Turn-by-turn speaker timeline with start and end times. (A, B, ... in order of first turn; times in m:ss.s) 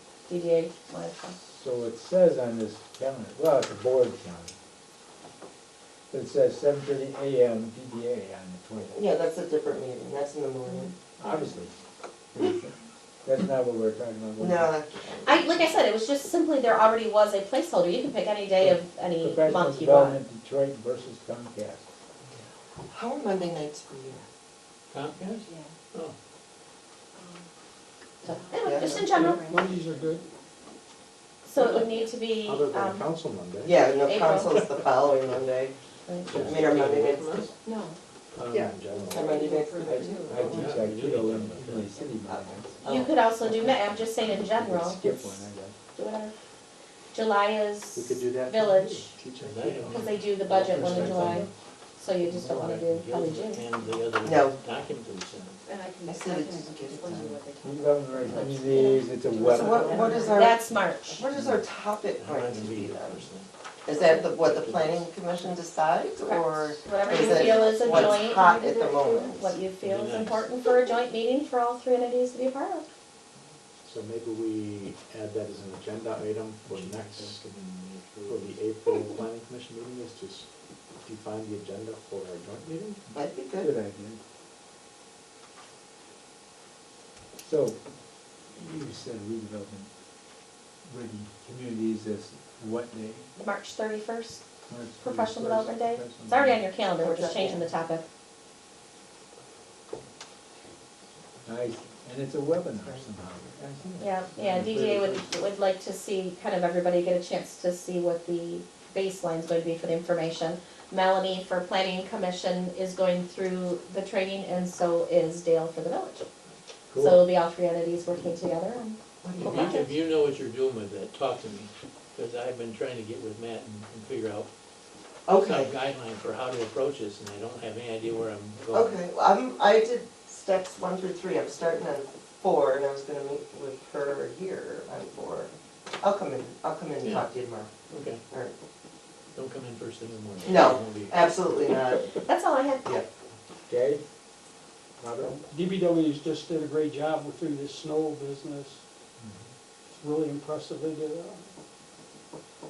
0:00.3-0:01.4 A
0:01.4-0:04.6 B
0:06.1-0:09.0 B
0:08.9-0:10.9 C
0:11.2-0:11.7 B
0:12.3-0:14.7 B
0:14.4-0:15.7 C
0:15.2-0:20.2 A
0:18.6-0:21.9 B
0:22.9-0:24.2 C
0:24.9-0:25.4 D
0:25.4-0:25.7 E
0:27.2-0:27.5 E
0:28.2-0:29.4 A
0:28.2-0:30.0 E
0:28.6-0:29.1 C
0:29.0-0:30.2 F
0:31.5-0:33.1 A
0:32.4-0:33.8 G
0:33.6-0:35.8 C
0:34.1-0:34.6 A
0:36.1-0:36.4 A
0:36.3-0:37.0 G
0:36.3-0:37.5 D
0:36.4-0:37.5 C
0:37.6-0:38.0 E
0:38.3-0:39.1 D
0:38.5-0:39.3 G
0:39.0-0:40.8 E
0:39.1-0:40.5 C
0:39.9-0:42.8 B
0:40.4-0:41.9 D
0:42.3-0:43.1 C
0:42.8-0:45.4 A
0:44.5-0:45.8 B
0:45.9-0:46.3 A
0:47.1-0:49.2 A
0:47.9-0:50.2 G
0:49.4-0:51.4 D
0:49.9-0:53.6 A
0:50.7-0:51.5 B
0:51.0-0:51.5 G
0:52.3-0:55.6 D
0:54.2-0:54.6 C
0:55.7-1:01.2 E
0:56.1-0:57.4 C
0:57.6-1:00.3 B
0:58.7-0:59.0 A
0:59.4-1:00.6 C
1:00.2-1:01.2 A
1:01.1-1:03.3 C
1:02.2-1:03.5 D
1:03.9-1:09.6 C
1:04.4-1:05.1 D
1:06.2-1:12.8 A
1:07.2-1:07.7 E
1:09.8-1:10.5 D
1:13.8-1:17.4 G
1:16.7-1:18.6 D
1:18.3-1:20.5 G
1:21.0-1:23.1 G
1:23.1-1:23.7 C
1:23.6-1:24.2 B
1:27.4-1:27.8 B
1:28.5-1:29.9 B
1:30.9-1:33.3 B
1:33.4-1:34.4 A
1:34.7-1:36.7 B
1:35.0-1:38.0 A
1:37.0-1:37.6 C
1:41.4-1:45.3 B
1:44.0-1:56.3 A
1:56.9-1:57.3 B
1:57.0-1:59.6 A
1:59.2-1:59.9 C
1:59.4-2:04.5 D
2:05.3-2:05.7 C
2:05.3-2:09.0 D
2:08.7-2:17.7 C
2:17.0-2:17.3 D
2:17.9-2:18.2 D
2:19.4-2:21.6 D
2:20.4-2:22.2 C
2:22.3-2:23.0 A
2:23.7-2:24.0 B
2:25.0-2:25.4 B
2:25.2-2:28.8 F
2:29.9-2:31.5 F